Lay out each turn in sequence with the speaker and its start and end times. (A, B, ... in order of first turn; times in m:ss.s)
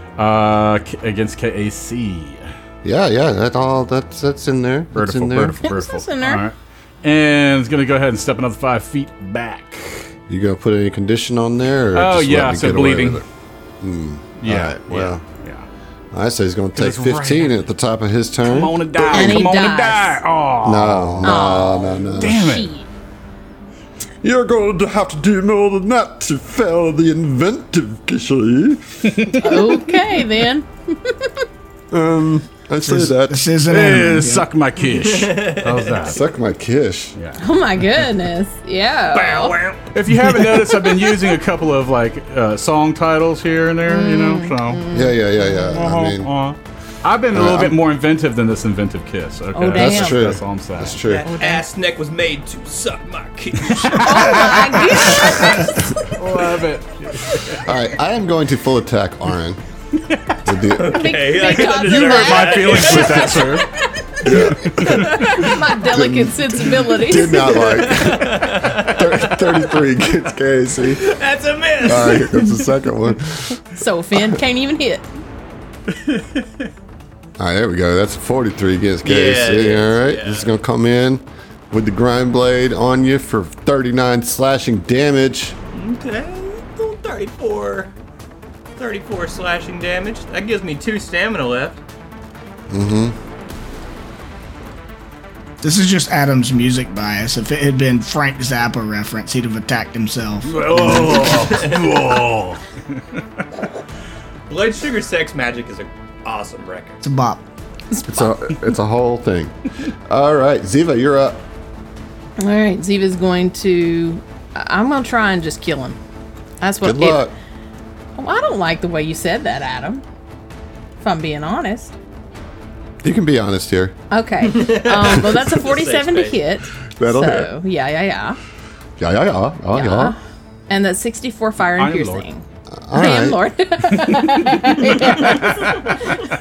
0:00.2-0:02.4 A
0:02.8-0:05.6 B
0:05.0-0:10.1 A
0:05.6-0:06.4 C
0:10.3-0:13.2 B
0:12.0-0:13.2 A
0:13.8-0:15.2 B
0:14.4-0:15.7 A
0:16.1-0:19.5 B
0:16.8-0:17.6 A
0:18.4-0:21.6 A
0:19.1-0:20.2 C
0:20.6-0:22.6 B
0:21.2-0:22.9 C
0:22.2-0:22.7 A
0:24.2-0:29.1 D
0:29.0-0:29.8 A
0:29.4-0:31.3 C
0:31.9-0:33.4 D
0:32.8-0:33.1 B
0:32.8-0:34.5 E
0:33.6-0:36.2 A
0:35.0-0:36.0 F
0:36.1-0:37.2 B
0:37.2-0:37.4 A
0:37.4-0:39.6 C
0:39.1-0:39.9 F
0:39.9-0:44.8 A
0:43.9-0:45.9 C
0:44.9-0:46.3 B
0:45.7-0:51.0 A
0:47.3-0:47.8 B
0:49.5-0:50.2 C
0:49.7-0:51.3 B
0:51.1-0:55.5 F
0:51.2-0:51.6 C
0:53.7-0:57.7 A
0:53.9-0:55.7 C
0:57.5-0:59.6 B
1:00.1-1:00.4 A
1:00.4-1:01.2 B
1:00.7-1:03.7 F
1:00.8-1:03.5 C
1:01.6-1:03.7 A
1:04.2-1:11.0 B
1:04.3-1:05.5 A
1:04.8-1:05.4 F
1:05.2-1:07.6 C
1:07.4-1:09.8 F
1:10.8-1:12.7 F
1:11.8-1:13.6 B
1:13.7-1:15.1 C
1:15.9-1:16.4 A
1:17.4-1:25.6 B
1:19.0-1:20.5 F
1:25.7-1:27.9 F
1:28.8-1:31.8 F
1:32.7-1:33.2 B
1:35.6-1:41.3 E
1:40.5-1:43.2 A
1:41.4-1:41.9 F
1:44.5-1:47.0 F
1:47.0-1:47.4 E
1:47.9-1:48.3 C
1:48.1-1:49.6 B
1:50.1-1:51.4 B
1:52.4-1:56.0 C
1:56.6-1:57.3 C
1:56.8-1:57.3 B
1:58.2-2:00.0 C
2:01.0-2:01.9 C
2:03.0-2:04.0 B
2:04.1-2:08.4 C
2:04.4-2:06.4 F
2:07.0-2:07.5 B
2:09.0-2:10.2 B
2:09.7-2:10.2 C
2:10.7-2:12.4 C
2:11.8-2:12.3 A
2:12.7-2:13.4 B
2:12.9-2:16.2 C
2:15.2-2:15.9 A